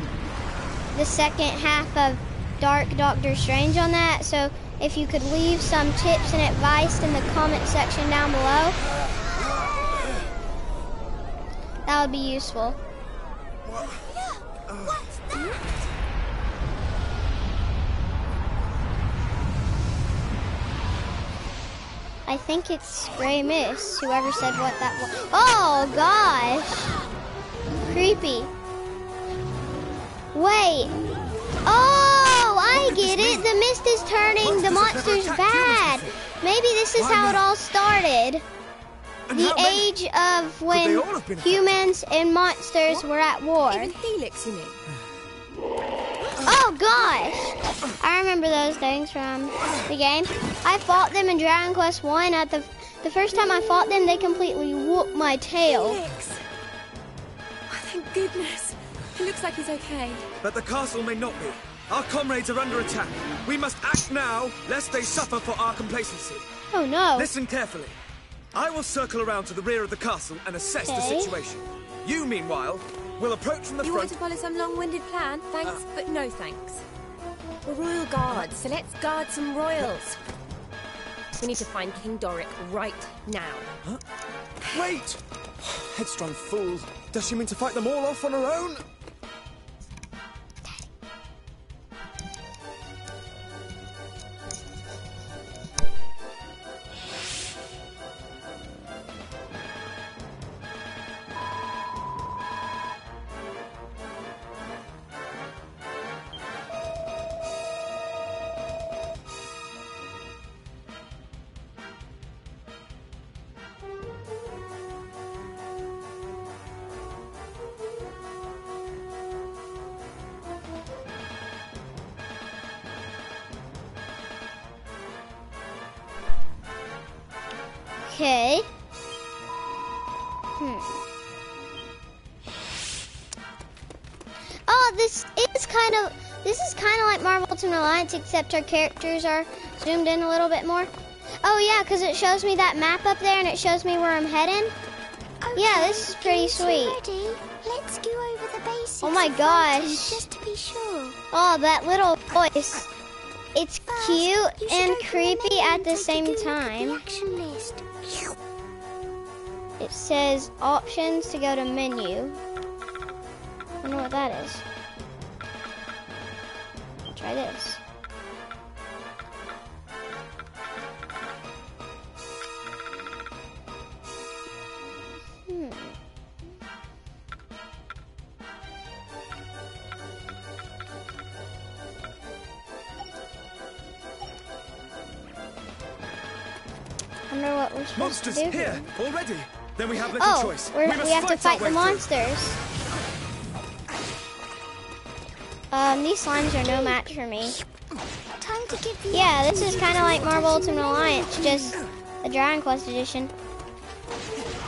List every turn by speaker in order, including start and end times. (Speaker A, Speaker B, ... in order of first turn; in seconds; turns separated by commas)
Speaker A: 0.9-8.8, Speaker A: 11.9-12.8, Speaker B: 14.9-15.6, Speaker C: 14.9-15.6, Speaker A: 22.3-26.9, Speaker A: 27.8-28.5, Speaker A: 30.3-30.9, Speaker A: 31.7-38.4, Speaker D: 32.7-33.5, Speaker D: 34.4-36.2, Speaker D: 37.0-37.5, Speaker D: 39.3-39.9, Speaker A: 39.3-44.0, Speaker D: 40.7-41.6, Speaker B: 43.7-44.8, Speaker A: 46.4-56.0, Speaker B: 55.7-56.4, Speaker B: 57.7-60.3, Speaker D: 60.4-66.5, Speaker A: 66.7-67.3, Speaker D: 67.2-68.0, Speaker D: 68.5-74.2, Speaker A: 70.8-71.3, Speaker B: 73.8-76.8, Speaker B: 77.7-80.2, Speaker B: 81.4-83.7, Speaker D: 84.6-88.8, Speaker A: 128.1-128.7, Speaker A: 130.6-131.0, Speaker A: 134.7-140.9, Speaker A: 141.4-144.8, Speaker C: 145.4-151.2, Speaker A: 145.6-147.0, Speaker A: 149.0-150.3, Speaker A: 151.3-152.9, Speaker A: 153.6-157.0, Speaker C: 153.9-158.4, Speaker A: 159.8-162.4, Speaker A: 163.8-164.6, Speaker A: 167.1-167.8, Speaker A: 175.5-175.9, Speaker A: 187.3-188.9, Speaker D: 188.0-192.1, Speaker A: 190.1-192.6, Speaker A: 195.7-197.6, Speaker C: 198.4-201.8, Speaker A: 199.1-203.3